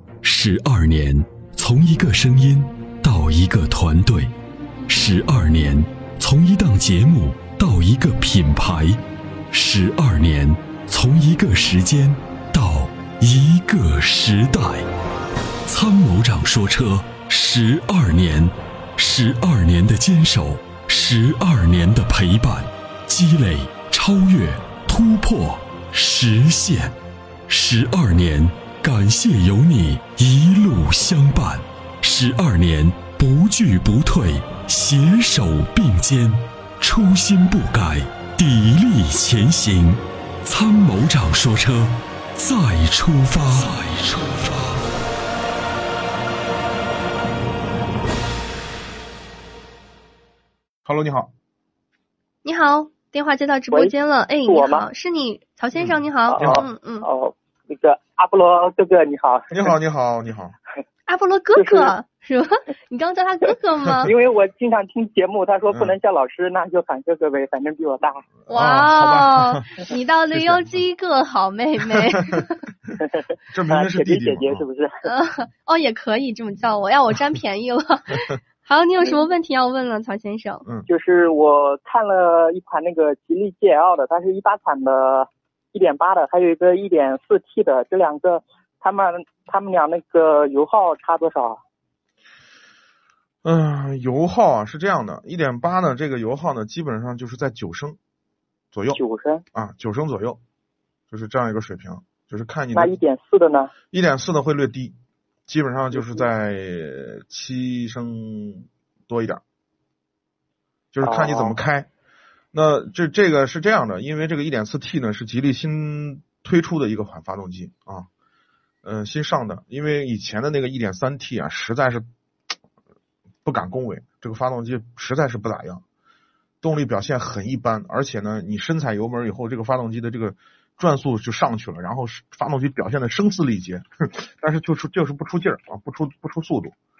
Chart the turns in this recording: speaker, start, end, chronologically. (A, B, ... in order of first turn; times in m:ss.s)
0:00.2-0:04.3 A
0:04.9-0:14.9 A
0:15.6-0:26.9 A
0:27.5-0:44.7 A
0:50.8-0:51.3 B
0:52.4-0:57.1 C
0:53.7-0:54.9 D
0:55.7-0:56.7 B
0:56.3-0:59.7 D
0:59.5-1:00.6 B
1:01.1-1:04.1 C
1:01.5-1:01.9 D
1:04.0-1:08.2 D
1:05.7-1:06.0 B
1:08.5-1:12.7 C
1:08.5-1:10.8 B
1:12.1-1:12.4 B
1:13.0-1:15.1 D
1:13.5-1:14.6 B
1:15.0-1:20.6 C
1:20.9-1:31.6 D
1:33.4-1:38.0 B
1:38.7-1:39.0 B
1:38.9-1:39.4 D
1:39.5-1:40.4 B
1:41.1-1:42.9 B
1:42.7-1:43.7 D
1:43.9-1:45.0 B
1:45.5-1:49.4 B
1:46.0-1:46.2 D
1:50.9-1:51.9 B
1:51.0-1:51.6 D
1:52.5-1:58.1 B
1:58.8-2:02.0 B
2:03.4-2:05.8 B
2:06.6-2:16.7 B